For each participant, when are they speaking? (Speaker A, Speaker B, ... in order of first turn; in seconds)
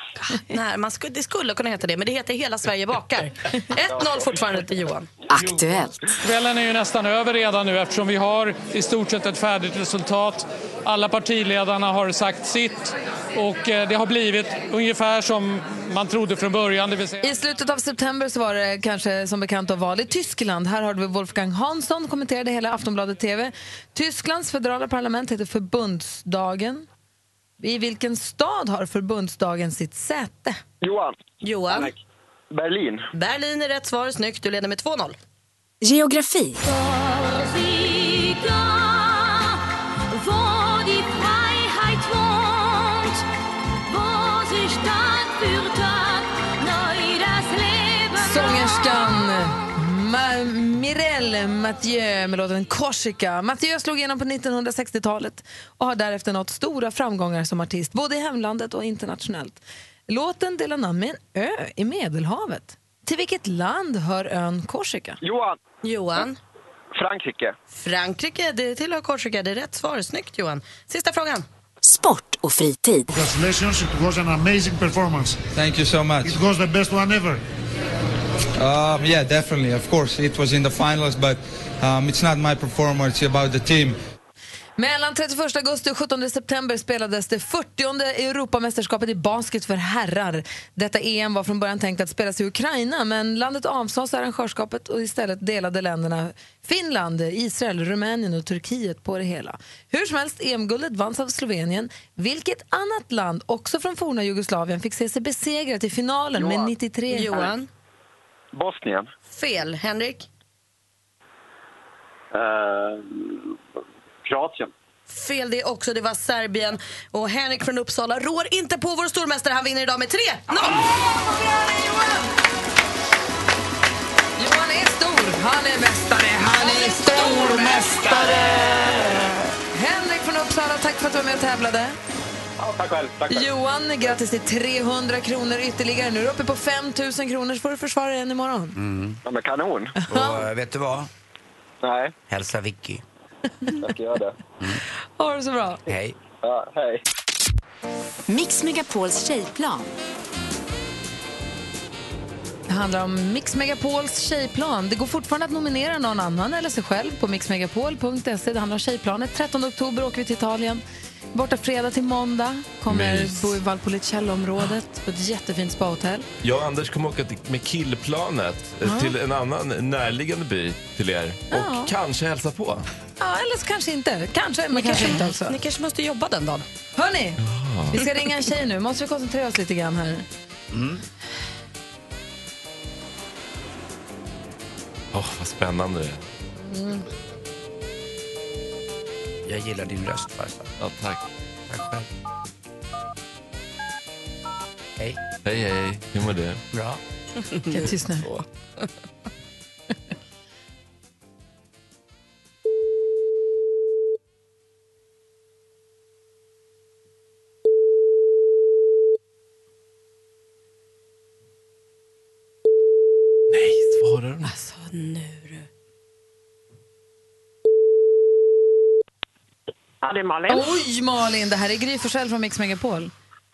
Speaker A: 0.3-5.1, 31.4-31.9, 33.1-35.2, 65.8-66.4, 67.8-71.5, 107.1-107.7, 109.3-110.3, 115.1-120.8, 174.7-176.7, 214.4-215.7
Speaker B: 5.3-6.0, 35.8-36.6, 71.8-73.1, 148.3-149.9
Speaker C: 6.2-17.2, 37.2-39.4, 40.1-43.2, 43.9-48.3, 220.2-220.6
Speaker D: 17.2-26.9, 27.6-30.6, 48.1-65.2, 84.8-107.5, 124.4-128.6, 129.7-132.0, 133.3-138.8, 140.0-140.4, 145.2-145.8, 152.7-166.3, 168.8-169.1, 171.5-171.9, 173.2-175.6, 177.0-177.4, 177.9-180.3, 186.7-187.0, 197.7-198.3, 220.5-223.1
Speaker E: 30.8-31.2, 31.7-32.0, 32.5-33.1, 65.2-65.6, 67.0-67.5, 106.4-106.7, 108.5-109.1, 112.3-113.5, 114.2-114.7, 132.6-133.4, 139.2-140.0, 141.8-142.2, 143.8-144.4, 146.4-147.0
Speaker F: 73.1-75.4, 76.2-77.4
Speaker G: 75.5-76.4, 78.6-84.0
Speaker H: 127.1-129.3, 138.8-139.2, 140.1-141.1, 142.3-143.0, 145.9-146.2, 180.7-181.0, 189.4-190.7, 191.7-192.1, 196.7-197.0
Speaker I: 162.9-163.6, 166.4-172.8, 177.4-178.0, 185.1-186.2, 190.8-191.3, 195.4-196.6, 213.5-214.5